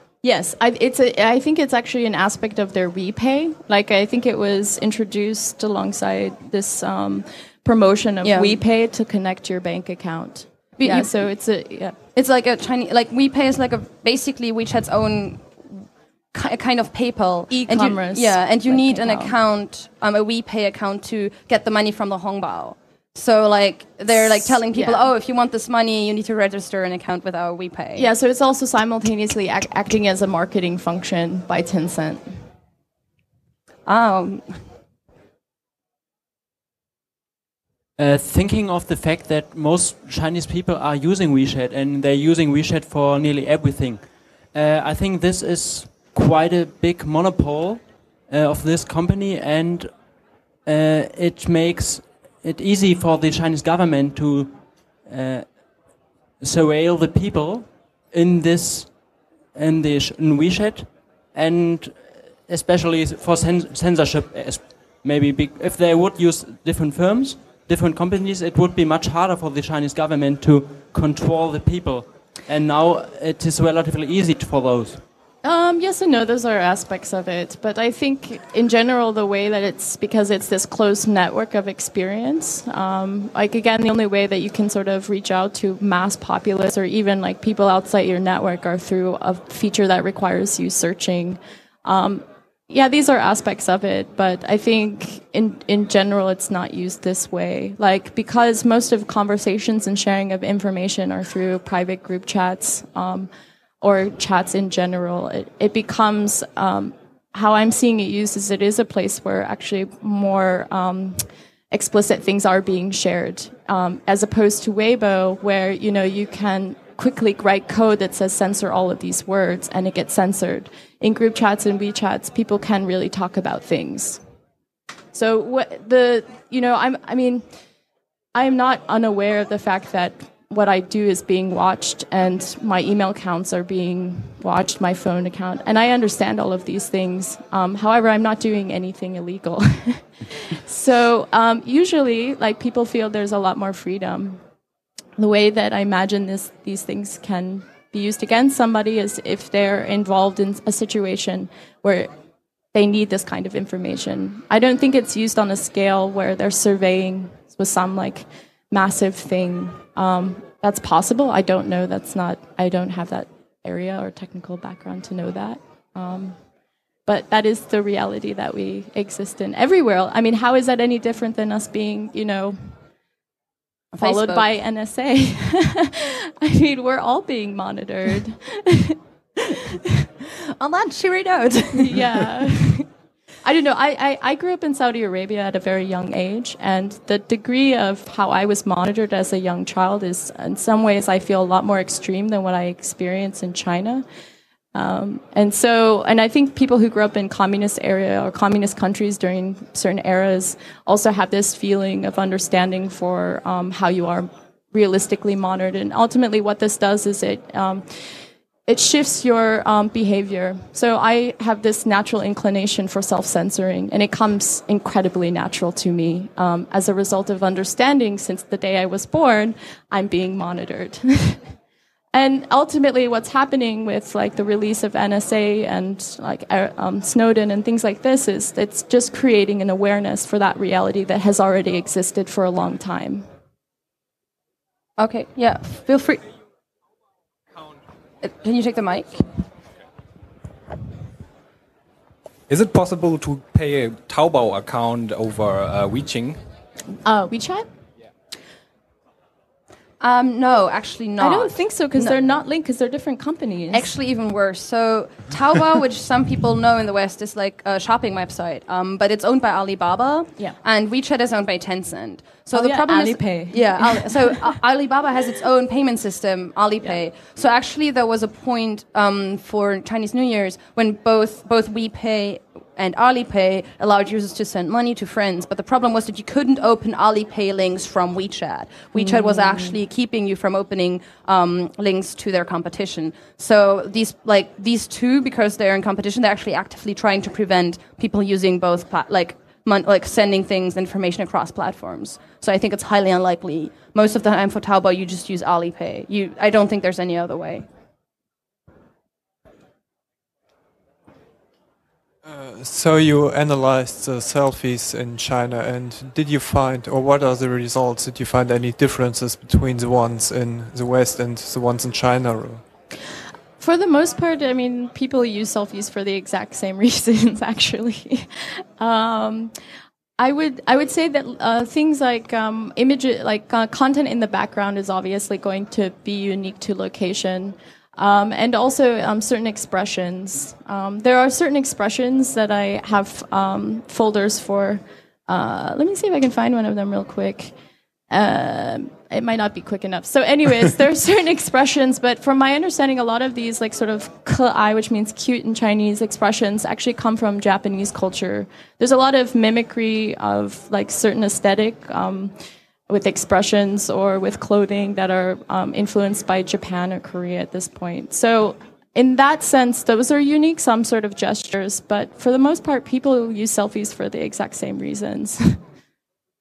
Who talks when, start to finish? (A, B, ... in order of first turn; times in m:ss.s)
0:00.2-0:12.0 A
0:08.2-0:08.6 B
0:10.8-0:11.3 B
0:12.1-0:28.1 B
0:17.5-0:19.3 A
0:24.2-0:25.0 A
0:28.0-0:32.4 A
0:33.8-0:34.6 B
0:38.0-0:50.1 C
0:50.6-1:15.0 C
1:15.4-1:43.3 A
1:43.8-2:04.2 A
2:05.1-2:07.4 A
2:08.3-2:24.4 A
2:25.2-2:32.1 A
2:32.7-2:46.4 A
2:47.1-2:52.8 A
2:53.9-2:54.5 B
2:54.0-2:59.0 A
3:00.5-3:02.2 B
3:01.7-3:02.9 A
3:03.4-3:14.0 A
3:14.7-3:41.5 A
3:42.1-3:53.3 A
3:55.0-3:56.2 B
3:58.2-3:59.3 B
4:02.5-4:06.5 D
4:07.0-4:07.7 A
4:10.0-4:12.2 B
4:11.2-4:13.9 A
4:13.7-4:57.7 B
4:22.5-4:24.6 A
5:02.2-5:12.6 E
5:13.6-5:19.5 A
5:20.2-5:37.5 A
5:38.1-5:52.3 A
5:52.9-6:05.6 A